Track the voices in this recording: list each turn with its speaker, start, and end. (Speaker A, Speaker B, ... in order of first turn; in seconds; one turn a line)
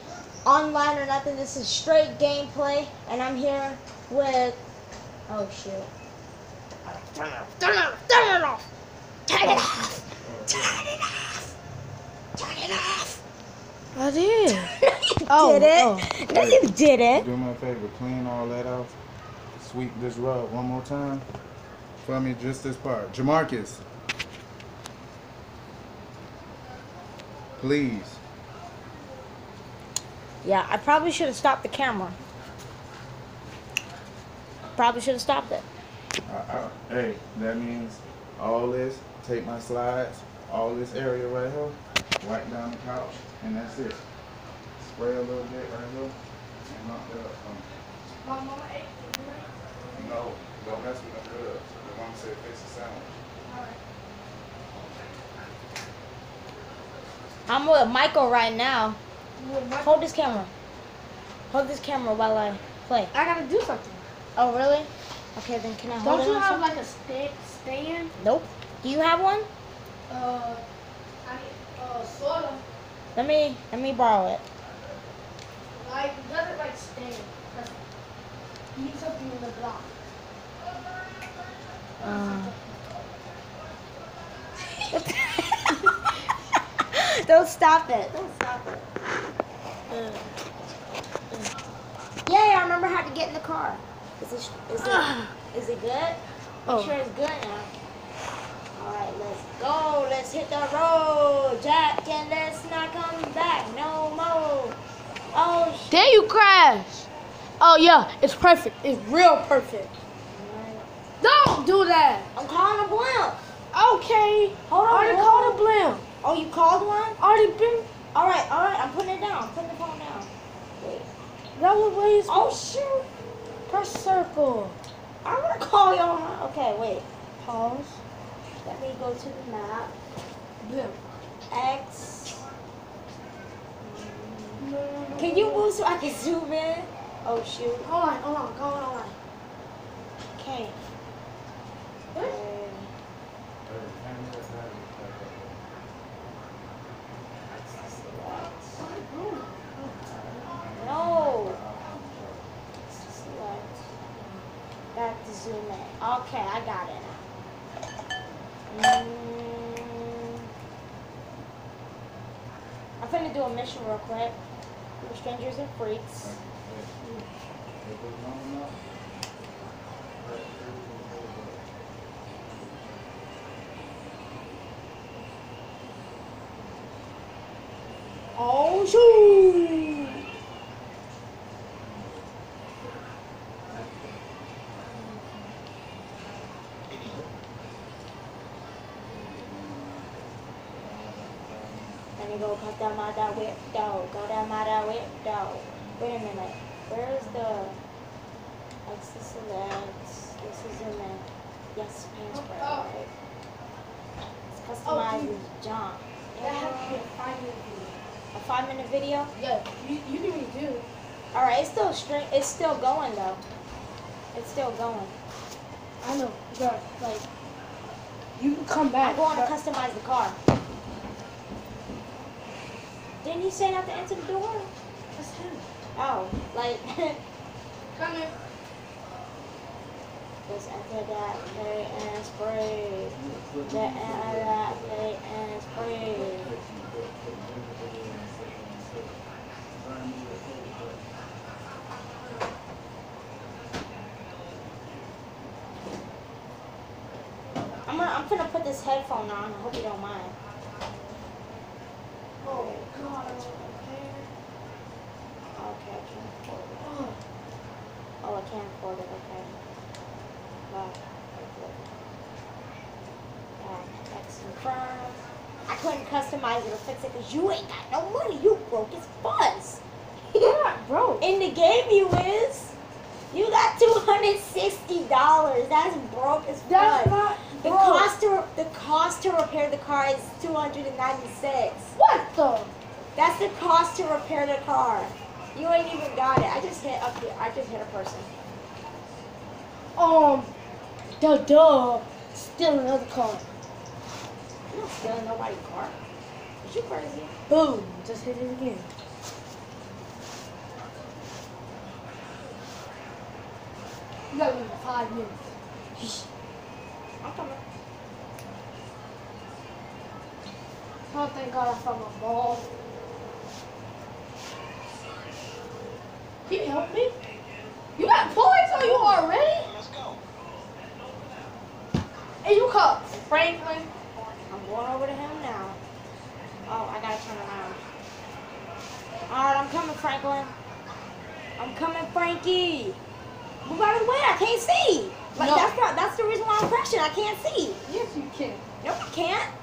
Speaker A: 0.5-4.6
Speaker A: 5.3-5.9
Speaker A: 7.2-8.6
Speaker A: 9.3-11.5
Speaker B: 9.4-10.8
Speaker A: 12.4-13.2
Speaker C: 13.9-14.7
Speaker A: 14.8-17.3
Speaker C: 15.3-16.1
Speaker B: 16.3-18.9
Speaker B: 19.6-21.3
Speaker B: 22.0-23.8
Speaker B: 27.6-28.2
Speaker A: 30.4-32.2
Speaker A: 34.8-35.6
Speaker B: 36.3-44.0
Speaker B: 44.8-46.2
Speaker B: 46.7-47.7
Speaker C: 48.2-50.2
Speaker B: 50.0-53.1
Speaker C: 53.4-53.8
Speaker A: 57.5-59.0
Speaker C: 59.4-60.2
Speaker A: 59.8-60.5
Speaker A: 61.5-63.1
Speaker C: 63.1-64.0
Speaker A: 64.4-66.7
Speaker C: 66.0-68.1
Speaker A: 68.2-69.5
Speaker C: 70.1-70.6
Speaker C: 71.2-72.6
Speaker A: 73.2-74.4
Speaker C: 75.8-77.8
Speaker C: 78.8-79.9
Speaker A: 82.0-82.5
Speaker C: 82.0-82.6
Speaker A: 84.9-86.1
Speaker A: 86.9-88.9
Speaker C: 89.9-90.2
Speaker A: 92.3-97.7
Speaker C: 94.8-95.3
Speaker C: 96.7-97.0
Speaker A: 98.8-104.8
Speaker A: 105.3-106.1
Speaker C: 105.9-107.1
Speaker C: 107.6-109.9
Speaker A: 110.3-110.9
Speaker C: 111.2-112.3
Speaker A: 112.3-113.4
Speaker C: 113.7-116.0
Speaker A: 114.7-115.6
Speaker A: 116.2-117.2
Speaker C: 117.2-117.9
Speaker A: 118.1-120.3
Speaker A: 120.8-121.1
Speaker C: 121.6-122.6
Speaker A: 122.3-123.1
Speaker C: 123.7-124.8
Speaker A: 125.2-127.0
Speaker C: 127.4-128.0
Speaker A: 128.6-129.9
Speaker C: 130.6-131.0
Speaker A: 131.5-132.4
Speaker A: 133.8-137.9
Speaker C: 134.6-135.7
Speaker C: 137.8-139.2
Speaker A: 140.4-140.8
Speaker C: 142.1-142.4
Speaker A: 142.2-142.9
Speaker B: 143.7-145.6
Speaker A: 147.5-148.8
Speaker C: 148.8-150.1
Speaker B: 150.1-152.5
Speaker A: 150.8-151.6
Speaker A: 152.8-153.8
Speaker C: 154.1-154.4
Speaker A: 154.9-157.2
Speaker A: 158.7-160.0
Speaker A: 163.0-164.3
Speaker A: 165.0-166.4
Speaker B: 166.2-166.9
Speaker C: 167.0-167.3
Speaker B: 167.8-168.8
Speaker B: 170.2-171.6
Speaker B: 172.4-173.2
Speaker C: 178.4-179.8
Speaker A: 178.4-178.7
Speaker B: 181.8-182.3
Speaker B: 183.7-184.3
Speaker B: 186.9-187.3
Speaker B: 189.0-192.0
Speaker A: 192.2-197.8
Speaker A: 198.9-203.1
Speaker C: 202.3-202.9
Speaker A: 204.5-207.0
Speaker C: 204.8-205.3
Speaker C: 206.4-208.0
Speaker A: 208.3-209.3
Speaker C: 209.3-210.8
Speaker A: 211.3-213.4
Speaker A: 214.3-215.1
Speaker C: 216.0-217.2
Speaker C: 218.4-219.5
Speaker A: 219.0-220.4
Speaker A: 223.2-224.7
Speaker C: 225.2-225.7
Speaker A: 226.0-227.2
Speaker C: 227.9-228.3
Speaker A: 230.5-236.5
Speaker B: 233.1-235.1
Speaker B: 235.7-239.2
Speaker B: 239.7-241.1
Speaker A: 247.9-250.3
Speaker C: 252.4-254.3
Speaker A: 252.4-253.9
Speaker A: 255.5-256.8
Speaker C: 256.8-257.2
Speaker A: 258.2-259.5
Speaker A: 260.7-261.8
Speaker A: 263.6-269.8
Speaker C: 270.4-271.2
Speaker A: 271.2-272.7
Speaker A: 273.3-281.9
Speaker C: 276.7-278.1
Speaker C: 282.0-282.7
Speaker A: 283.2-288.3
Speaker C: 290.0-290.5
Speaker C: 291.2-293.4
Speaker A: 294.7-295.9
Speaker A: 296.6-297.3
Speaker C: 297.5-298.9
Speaker C: 304.3-305.4
Speaker A: 307.2-307.6
Speaker C: 311.1-312.7
Speaker C: 316.5-317.1
Speaker C: 318.0-319.8
Speaker A: 318.8-319.1
Speaker C: 322.4-323.9
Speaker A: 324.5-325.8
Speaker A: 326.7-327.8
Speaker A: 329.3-330.5
Speaker A: 331.6-333.0
Speaker A: 333.6-337.8
Speaker C: 335.4-335.7
Speaker C: 337.9-338.6
Speaker A: 338.8-339.5